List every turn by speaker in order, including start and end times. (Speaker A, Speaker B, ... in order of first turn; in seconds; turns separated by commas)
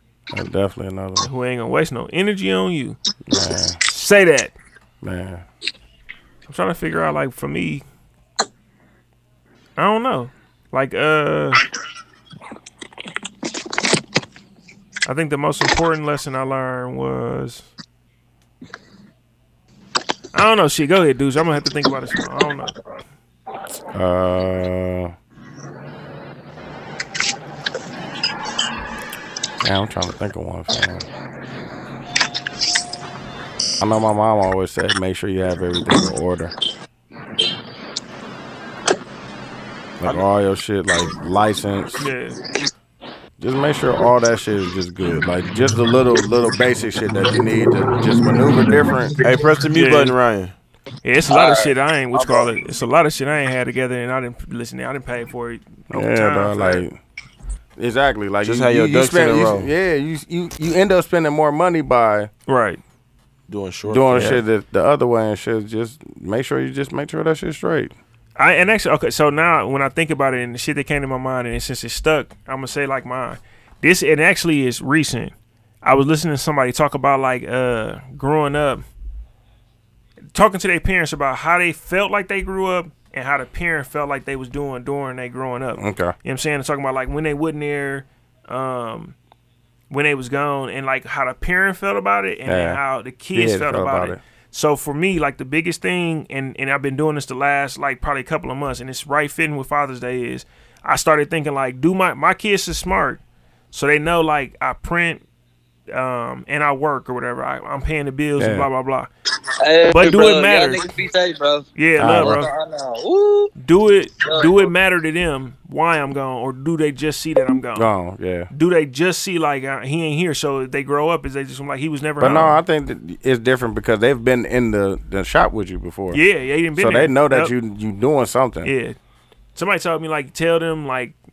Speaker A: 0.3-1.3, Speaker B: 1.2-3.0, Speaker A: 3.3-3.8, Speaker B: 3.9-4.5, Speaker A: 5.0-5.4, Speaker B: 6.5-7.8, Speaker B: 9.8-11.6, Speaker B: 15.1-17.7, Speaker B: 20.3-22.7, Speaker A: 23.9-25.1, Speaker A: 29.6-31.1, Speaker A: 33.8-36.5, Speaker A: 40.0-42.1, Speaker B: 42.0-42.4, Speaker A: 43.4-49.2, Speaker C: 49.2-50.5, Speaker B: 49.7-50.2, Speaker B: 51.0-56.8, Speaker D: 51.3-52.5, Speaker A: 55.9-57.0, Speaker A: 57.8-62.3, Speaker C: 58.4-59.7, Speaker B: 62.5-62.8, Speaker C: 63.5-64.4, Speaker A: 63.9-67.9, Speaker B: 68.4-78.8, Speaker B: 80.3-89.1, Speaker A: 85.8-86.2, Speaker B: 89.9-103.2, Speaker A: 92.5-92.8, Speaker A: 93.3-94.2, Speaker B: 103.7-105.2, Speaker B: 105.9-109.1, Speaker A: 108.4-108.7, Speaker D: 109.6-113.5, Speaker B: 109.9-110.9, Speaker B: 111.7-112.5, Speaker A: 112.0-112.5, Speaker B: 113.6-117.9, Speaker D: 114.2-114.7, Speaker A: 117.7-118.5, Speaker B: 118.5-122.6, Speaker A: 122.2-126.2, Speaker B: 126.1-127.5, Speaker A: 126.8-128.7, Speaker B: 128.6-128.9, Speaker B: 129.6-131.2